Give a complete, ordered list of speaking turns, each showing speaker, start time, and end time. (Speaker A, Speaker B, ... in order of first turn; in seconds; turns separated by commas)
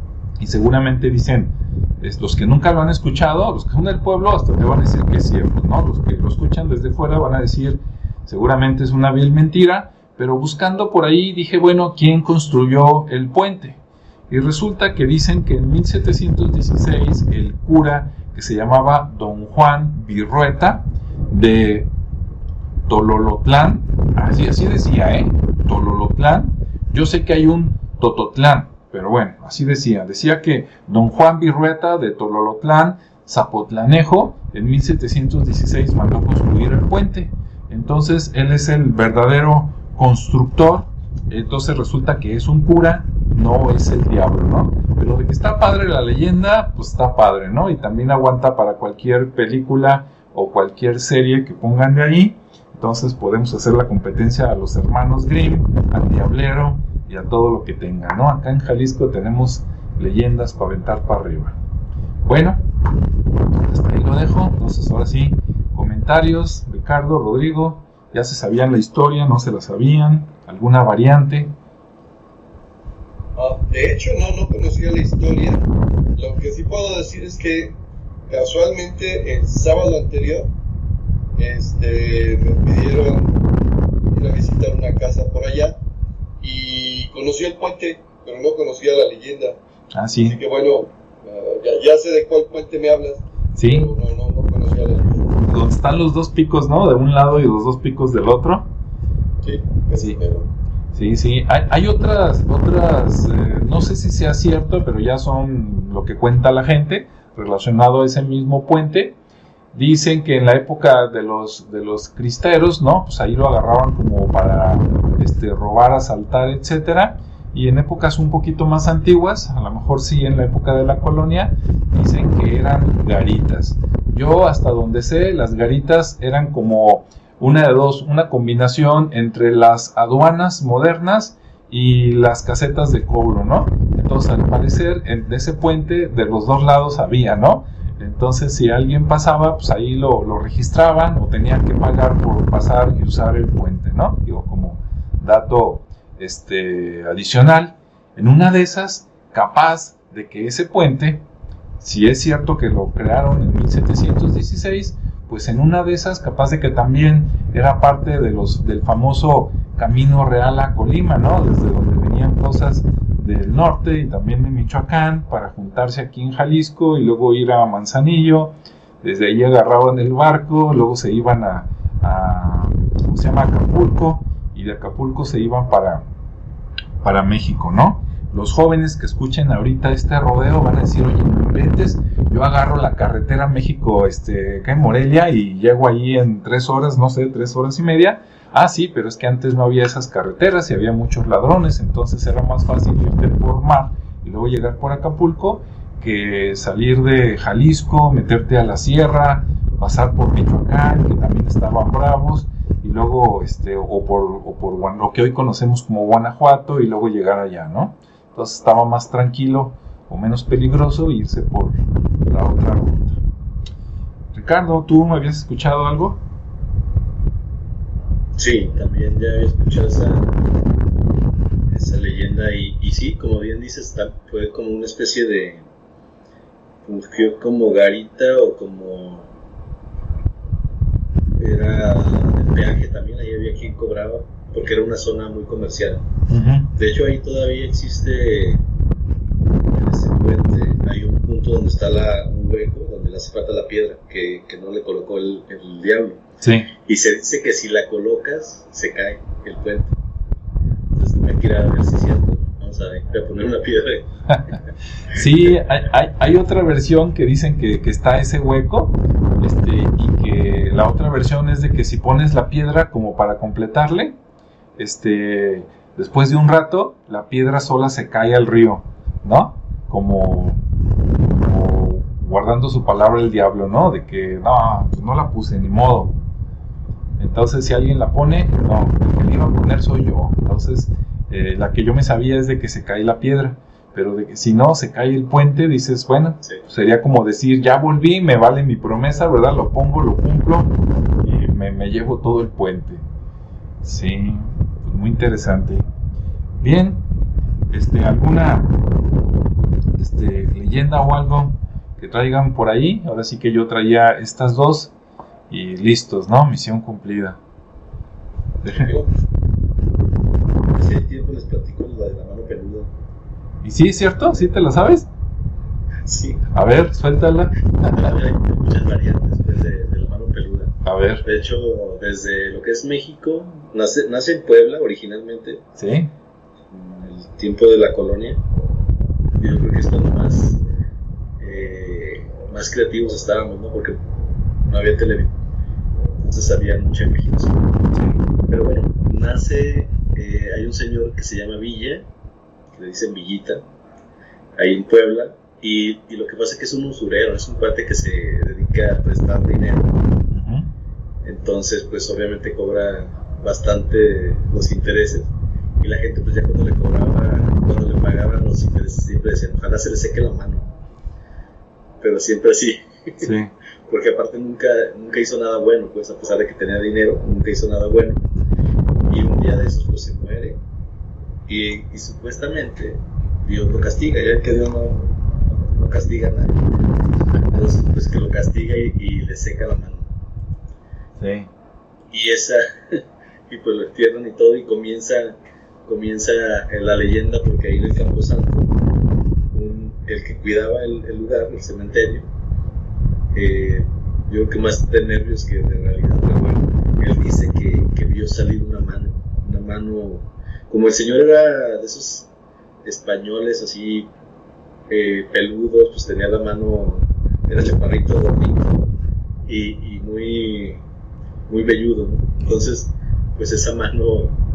Speaker A: 0.4-21.9, Speaker A: 22.9-61.5, Speaker A: 62.2-62.6, Speaker A: 63.7-71.5, Speaker B: 73.4-75.6, Speaker B: 76.2-77.8, Speaker B: 78.3-80.5, Speaker B: 81.4-83.4, Speaker B: 84.1-85.8, Speaker B: 86.4-89.6, Speaker A: 89.9-90.4, Speaker B: 90.2-95.4, Speaker A: 93.6-93.9, Speaker A: 95.5-98.7, Speaker B: 99.4-100.5, Speaker A: 100.9-109.2, Speaker A: 109.7-151.2, Speaker A: 151.8-176.1, Speaker A: 177.0-213.2, Speaker A: 214.3-216.2, Speaker C: 218.4-220.3, Speaker C: 221.7-225.7, Speaker C: 226.8-229.3, Speaker C: 231.4-236.0, Speaker A: 236.3-236.7, Speaker C: 236.7-238.6, Speaker C: 239.7-246.2, Speaker A: 246.4-246.7, Speaker C: 246.8-249.9, Speaker C: 251.0-254.1, Speaker A: 255.1-264.1, Speaker C: 255.2-255.6, Speaker A: 264.8-270.6, Speaker A: 271.2-276.1, Speaker A: 277.2-293.0, Speaker A: 293.8-295.9, Speaker A: 296.6-297.0, Speaker A: 297.7-298.8, Speaker A: 300.0-304.9, Speaker A: 305.5-307.4, Speaker A: 308.6-308.9, Speaker C: 310.8-312.9, Speaker A: 313.6-315.1, Speaker C: 316.1-316.4, Speaker A: 316.5-318.1, Speaker C: 317.9-320.7, Speaker A: 320.8-321.2, Speaker C: 321.2-325.6, Speaker A: 325.8-326.1, Speaker C: 326.7-328.4, Speaker C: 329.4-330.6, Speaker C: 331.4-334.0, Speaker C: 334.7-335.3, Speaker C: 336.2-337.6, Speaker C: 338.5-342.1, Speaker C: 342.7-343.6, Speaker C: 344.6-349.9, Speaker A: 350.3-350.7, Speaker C: 351.2-355.3, Speaker C: 355.8-360.7, Speaker C: 362.0-363.3, Speaker A: 363.2-363.5, Speaker C: 363.9-368.2, Speaker C: 369.1-370.6, Speaker C: 371.5-376.6, Speaker C: 377.5-380.1, Speaker A: 381.2-381.5, Speaker C: 382.1-388.7, Speaker C: 389.5-392.3, Speaker C: 393.3-402.3, Speaker C: 402.8-404.1, Speaker C: 404.9-408.8, Speaker C: 409.4-410.8, Speaker C: 411.5-414.4